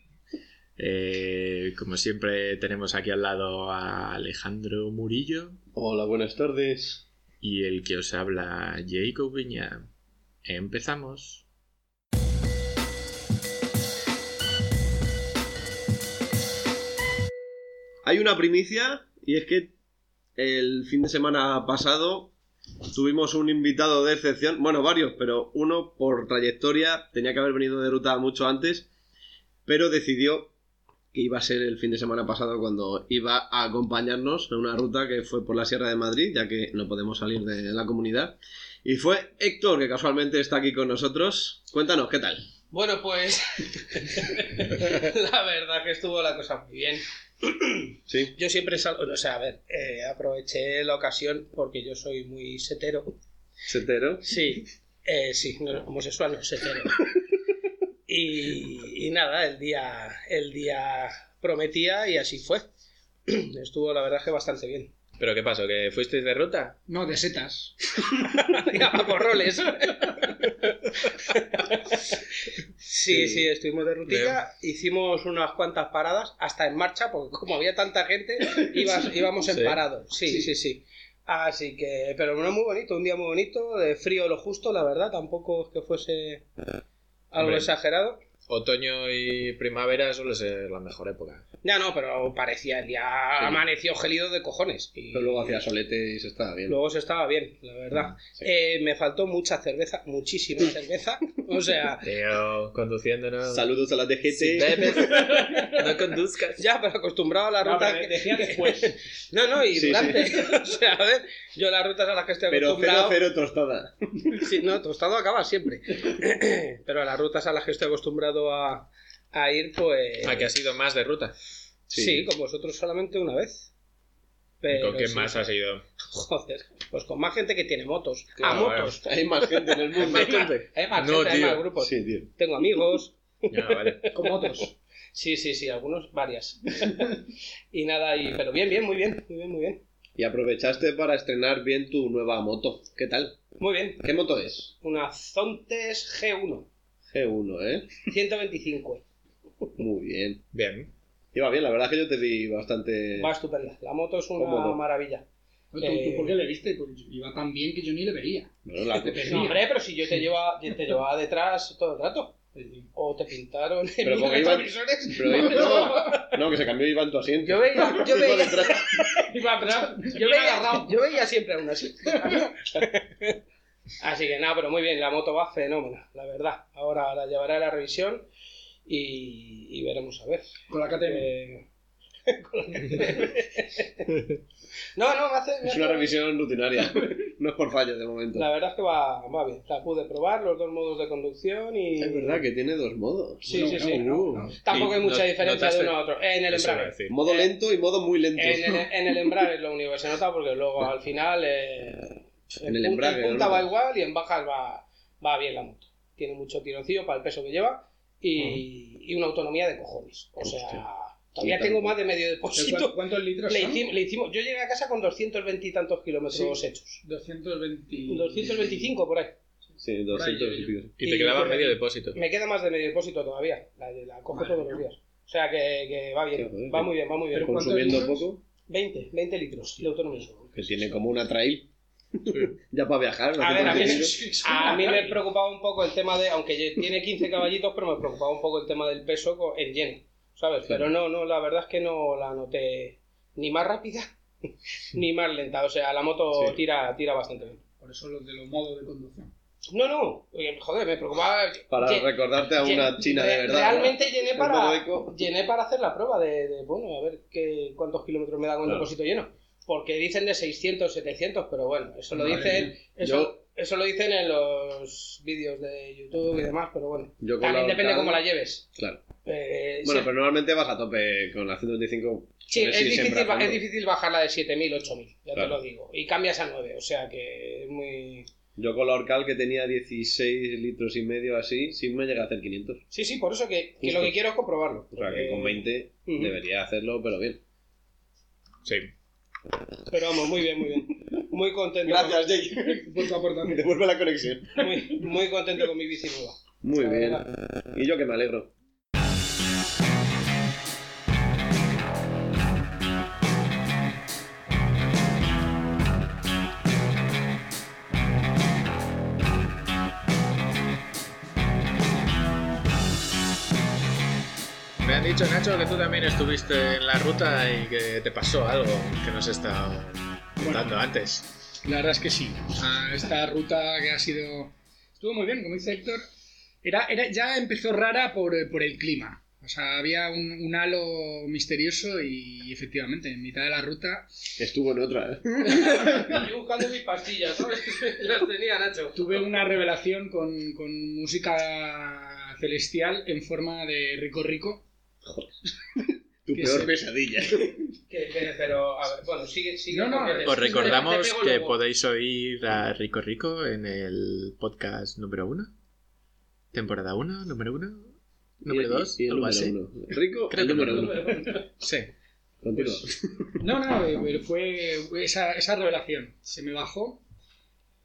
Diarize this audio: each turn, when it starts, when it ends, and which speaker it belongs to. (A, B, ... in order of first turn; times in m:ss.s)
0:00.8-0:05.6 A
0:05.7-0:07.0 B
0:07.4-0:09.9 A
0:10.4-0:11.4 A
0:18.0-0:19.7 B
0:20.4-0:22.3 B
0:22.9-0:28.9 B
0:29.6-0:30.5 B
0:31.1-0:42.5 B
0:42.7-0:53.2 C
0:48.1-0:48.3 B
0:53.7-0:54.3 B
0:54.2-0:57.0 C
0:58.1-1:02.6 C
1:03.3-1:04.9 C
1:05.2-1:06.8 A
1:06.9-1:07.7 D
1:08.2-1:12.1 C
1:12.8-1:26.4 C
1:13.1-1:13.4 B
1:14.1-1:14.4 A
1:19.4-1:19.8 A
1:27.3-1:28.2 C
1:27.4-1:27.7 A
1:28.5-1:31.4 A
1:31.6-1:35.6 C
1:35.1-1:36.8 B
1:36.7-1:42.1 C
1:42.0-1:43.6 A
1:43.5-1:45.0 B
1:44.3-1:46.6 A
1:44.9-1:53.2 C
1:47.6-1:49.0 D
1:49.7-1:50.3 B
1:52.5-1:53.9 B
1:54.3-2:00.5 C
2:00.2-2:01.3 A
2:01.9-2:02.3 B
2:01.9-2:03.7 C
2:04.6-2:05.5 C
2:04.7-2:05.8 A
2:06.0-2:09.0 C
2:08.4-2:08.9 A
2:09.0-2:10.3 B
2:09.9-2:14.6 C
2:10.0-2:11.6 A
2:11.8-2:12.3 B
2:13.5-2:14.1 A
2:14.1-2:14.7 D
2:15.1-2:19.8 C
2:20.2-2:23.4 B
2:23.6-2:24.0 C
2:24.0-2:24.7 B
2:24.8-2:26.7 C
2:27.1-2:27.9 B
2:28.1-2:29.0 C
2:29.8-2:30.4 B
2:30.5-2:30.9 A
2:31.3-2:33.3 B
2:33.2-2:35.2 C
2:34.4-2:34.8 B
2:35.7-2:39.6 D
2:35.8-2:36.3 C
2:38.6-2:39.5 B
2:39.1-2:42.4 C
2:42.6-2:42.8 D
2:42.9-2:46.4 C
2:44.0-2:49.0 B
2:45.3-2:46.1 D
2:47.4-2:53.4 C
2:49.3-2:50.9 D
2:54.0-2:58.3 C
2:58.9-3:01.6 C
3:00.7-3:01.3 D
3:02.2-3:04.1 C
3:04.9-3:06.1 C
3:05.6-3:08.5 B
3:08.3-3:12.4 C
3:12.0-3:13.8 B
3:13.5-3:17.5 C
3:13.5-3:14.6 D
3:13.8-3:15.9 A
3:16.5-3:17.1 A
3:17.1-3:18.9 B
3:18.3-3:37.0 C
3:22.6-3:23.7 B
3:30.4-3:30.8 B
3:31.4-3:32.0 B
3:32.5-3:33.8 D
3:36.3-3:38.5 D
3:38.1-3:39.3 C
3:39.8-3:40.9 B
3:40.1-3:40.7 D
3:41.0-3:42.2 A
3:41.0-3:48.0 C
3:41.3-3:41.6 D
3:44.3-3:44.8 D
3:46.4-3:48.4 B
3:47.3-3:48.2 D
3:48.7-3:50.5 C
3:50.5-3:51.7 B
3:52.2-3:54.1 B
3:53.4-3:55.2 D
3:53.5-4:04.1 C
4:04.9-4:07.6 C
4:07.8-4:09.3 D
4:09.7-4:28.7 C
4:11.7-4:15.2 B
4:22.2-4:22.7 D
4:23.0-4:23.4 B
4:27.2-4:28.2 B
4:28.8-4:29.0 B
4:29.2-4:30.1 C
4:29.8-4:33.6 B
4:32.5-4:38.3 C
4:38.6-4:42.8 B
4:42.9-4:46.4 C
4:43.8-4:44.1 B
4:44.9-4:47.4 B
4:48.6-4:48.9 A
4:49.9-4:52.2 C
4:51.8-4:54.6 B
4:52.6-4:53.6 D
4:54.6-4:57.2 C
4:56.6-4:58.5 B
5:14.8-5:21.3 A
5:20.4-5:20.8 D
5:21.6-5:26.0 D
5:26.6-5:34.1 D
5:34.4-5:36.1 B
5:35.5-5:39.5 C
5:38.9-5:44.6 D
5:46.2-5:47.6 B
5:46.3-5:46.8 D
5:47.9-5:51.6 C
5:49.7-5:50.9 D
5:50.2-5:55.5 A
5:56.5-5:59.5 A
5:58.4-6:01.3 B
6:00.3-6:01.9 A
6:00.6-6:01.5 C
6:02.4-6:03.1 B
6:03.4-6:07.0 D